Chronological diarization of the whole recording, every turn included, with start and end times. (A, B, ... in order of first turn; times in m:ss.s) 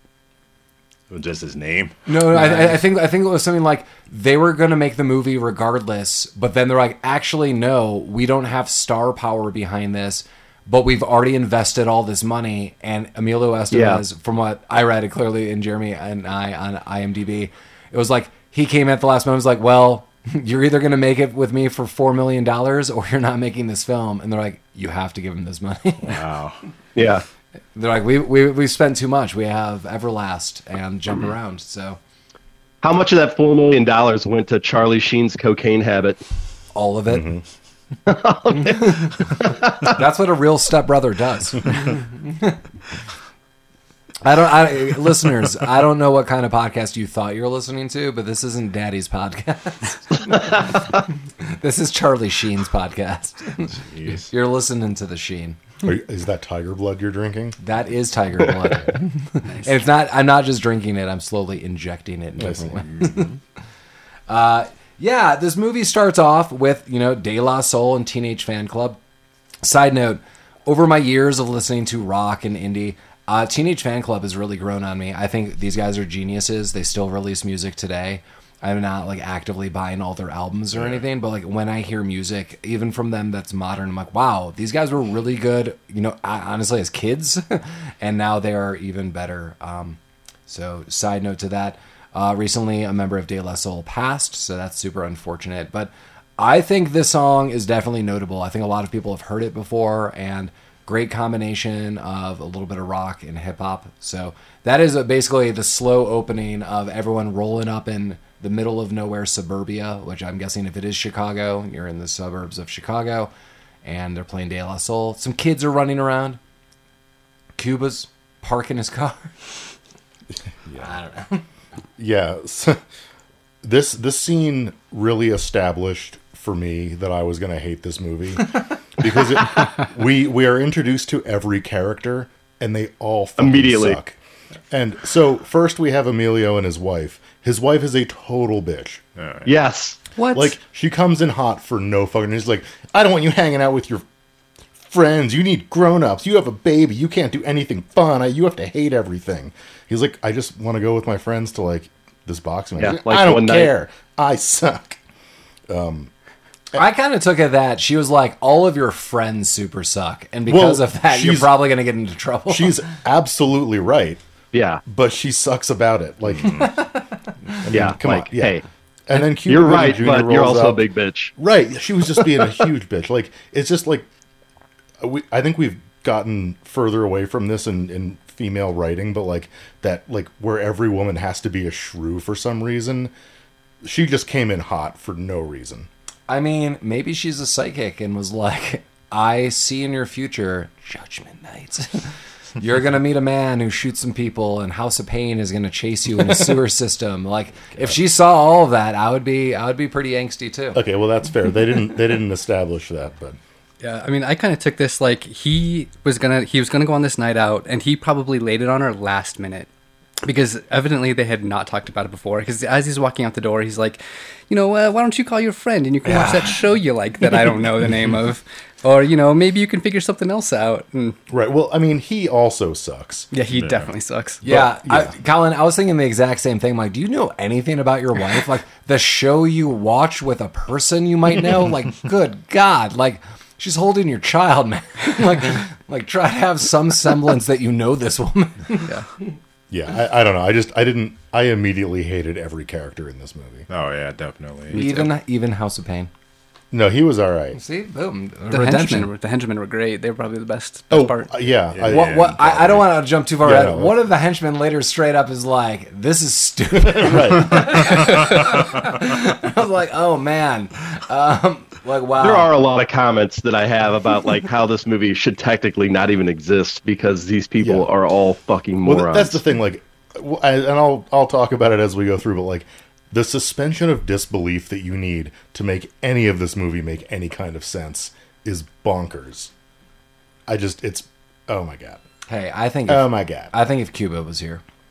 0:01.1-0:02.0 A
0:02.1-0:26.2 B
0:13.7-0:14.0 C
0:26.0-0:26.6 A
0:27.0-0:27.2 C
0:27.8-0:32.0 B
0:32.8-0:36.2 C
0:36.7-0:37.4 B
0:37.1-0:37.4 D
0:38.1-0:39.9 C
0:38.5-0:42.6 B
0:44.2-0:55.6 B
0:53.7-0:54.3 A
0:55.8-0:57.6 D
0:57.6-1:03.3 B
1:02.4-1:02.8 D
1:02.9-1:03.3 A
1:04.3-1:09.0 B
1:09.6-1:53.3 B
1:53.8-1:56.4 B
1:57.6-1:59.3 B
2:00.8-2:01.4 B
2:02.0-2:02.8 D
2:03.6-2:14.2 D
2:13.4-2:14.0 C
2:14.7-2:19.0 D
2:19.2-2:19.5 A
2:19.4-2:20.0 C
2:20.2-2:20.6 E
2:20.3-2:24.0 D
2:24.9-2:35.0 D
2:32.8-2:33.7 C
2:35.7-2:36.1 D
2:36.8-2:42.8 B
2:40.5-2:41.6 D
2:42.5-2:44.2 D
2:44.5-2:44.8 C
2:44.8-2:46.6 D
2:46.3-2:46.7 A
2:46.6-2:47.7 B
2:47.7-2:50.8 D
2:47.7-2:48.6 C
2:49.2-2:51.3 C
2:51.4-2:54.1 D
2:52.1-2:52.6 C
2:55.0-3:03.1 D
3:03.8-3:05.9 D
3:06.3-3:20.8 B
3:20.7-3:23.4 D
3:23.8-3:29.7 E
3:30.2-3:34.0 E
3:34.5-3:41.2 E
3:36.1-3:36.5 B
3:41.3-3:43.3 D
3:43.3-3:44.4 E
3:43.5-3:43.9 A
3:44.4-3:45.1 D
3:44.4-3:59.0 B
3:59.7-4:03.7 D
4:03.7-4:05.1 A
4:04.7-4:06.1 B
4:06.7-4:07.6 D
4:07.6-4:09.1 B
4:08.5-4:11.3 E
4:10.9-4:12.4 D
4:11.7-4:12.8 A
4:11.9-4:22.5 B
4:13.4-4:14.0 D
4:16.8-4:18.0 D
4:22.2-4:29.4 C
4:27.6-4:27.9 D
4:28.8-4:39.5 D
4:40.5-4:42.0 D
4:42.3-4:44.6 B
4:42.9-4:43.5 D